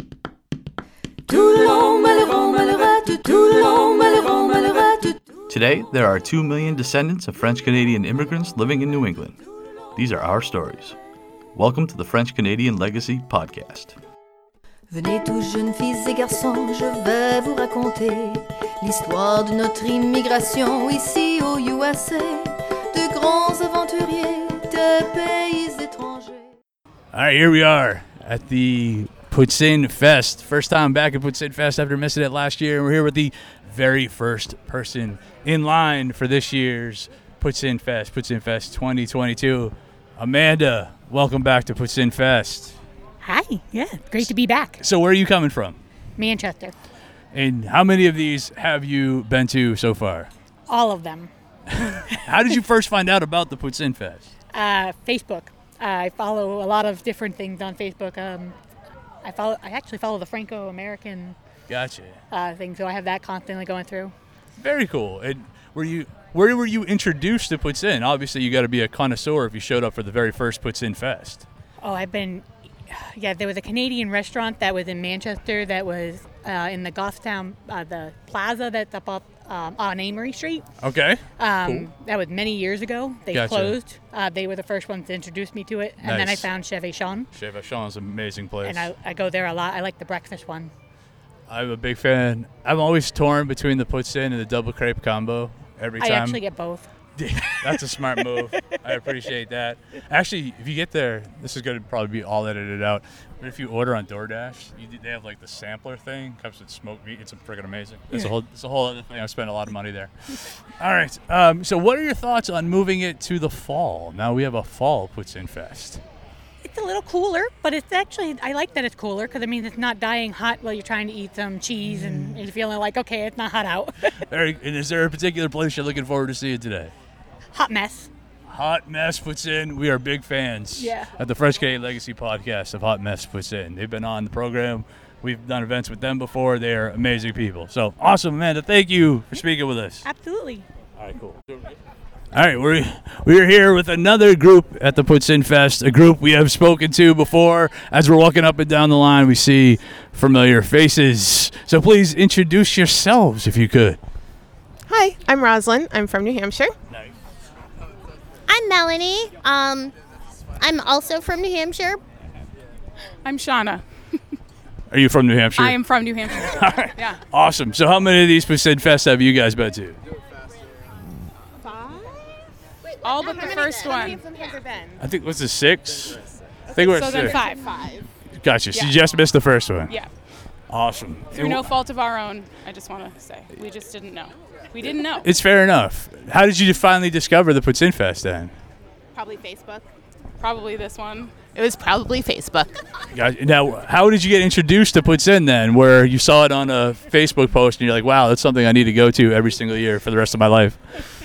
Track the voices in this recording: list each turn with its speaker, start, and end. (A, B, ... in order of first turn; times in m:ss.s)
0:01.3-0:05.2 A
0:05.5-0:09.4 B
0:10.0-0:11.0 B
0:11.6-0:14.0 B
0:14.9-0:26.5 A
0:27.1-0:42.8 C
0:43.2-0:44.8 D
0:44.8-0:45.8 C
0:46.2-0:46.7 D
0:47.3-0:50.3 C
0:50.7-0:51.3 D
0:51.8-0:54.3 C
0:54.5-0:58.6 D
0:59.2-1:01.4 D
1:01.7-1:02.2 C
1:02.3-1:04.1 D
1:04.6-1:11.4 C
1:11.8-1:20.6 D
1:20.8-1:21.9 C
1:21.4-1:27.3 D
1:23.3-1:23.8 C
1:26.0-1:26.5 C
1:27.3-1:28.9 C
1:28.6-1:30.7 D
1:31.5-1:36.4 C
1:36.0-1:36.9 D
1:37.2-1:50.1 C
1:50.8-1:56.0 C
1:56.6-2:03.9 D
2:04.3-2:06.9 C
2:07.5-2:08.1 D
2:08.5-2:20.0 C
2:10.8-2:11.1 D
2:20.0-2:20.6 D
2:21.0-2:21.4 C
2:22.3-2:34.0 C
2:34.9-2:36.7 E
2:38.5-2:39.9 F
2:40.6-2:42.0 F
2:43.2-2:43.8 G
2:44.9-2:45.8 C
2:45.6-2:47.2 G
2:46.3-2:50.0 C
2:51.6-2:52.0 E
2:52.9-2:55.0 E
2:53.0-2:54.2 G
2:55.0-2:56.2 C
2:56.7-2:57.4 C
2:56.8-2:58.0 E
2:57.0-2:57.7 G
2:58.4-2:59.9 C
3:00.7-3:01.6 C
3:01.3-3:05.3 G
3:05.2-3:08.5 C
3:09.2-3:09.8 E
3:10.4-3:11.3 G
3:11.6-3:12.8 E
3:13.1-3:20.8 C